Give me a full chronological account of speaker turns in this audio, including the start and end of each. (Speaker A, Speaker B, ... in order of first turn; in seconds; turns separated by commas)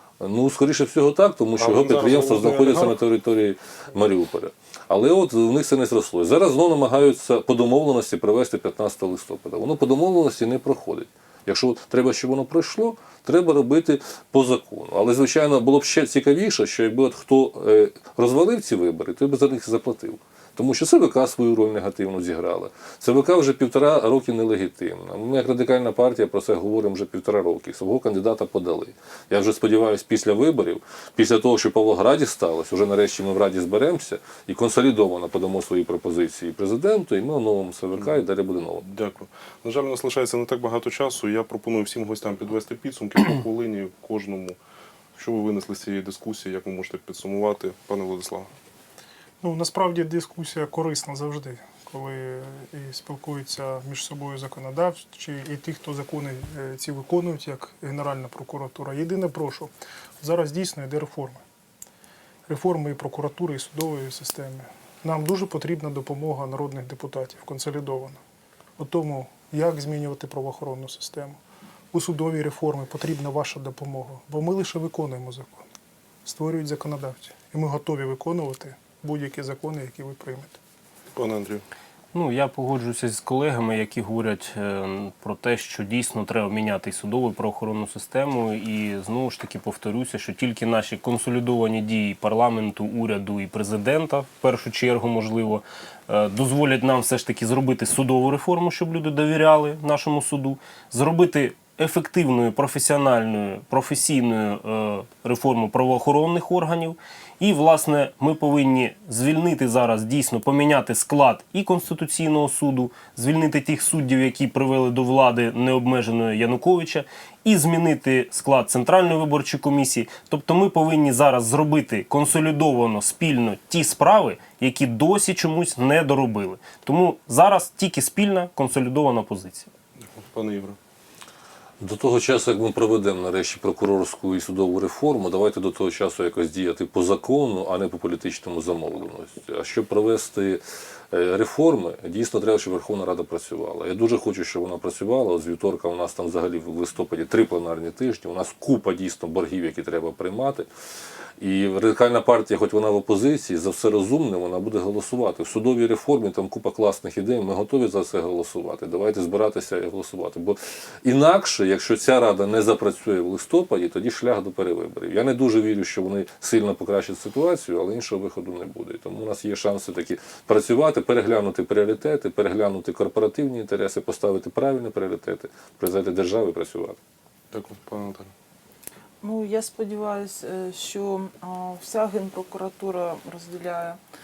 Speaker A: 0.2-38.8, Speaker B: 1.6-3.0, Speaker B: 38.8-44.6, Speaker B: 45.1-48.5, Speaker C: 49.4-61.4, Speaker C: 62.5-68.2, Speaker C: 68.8-71.4, Speaker C: 71.9-75.6, Speaker C: 76.2-80.6, Speaker B: 81.1-81.6, Speaker D: 82.1-129.7, Speaker B: 130.0-130.8, Speaker A: 131.8-150.7, Speaker A: 151.4-177.0, Speaker B: 177.5-178.3, Speaker E: 179.2-184.0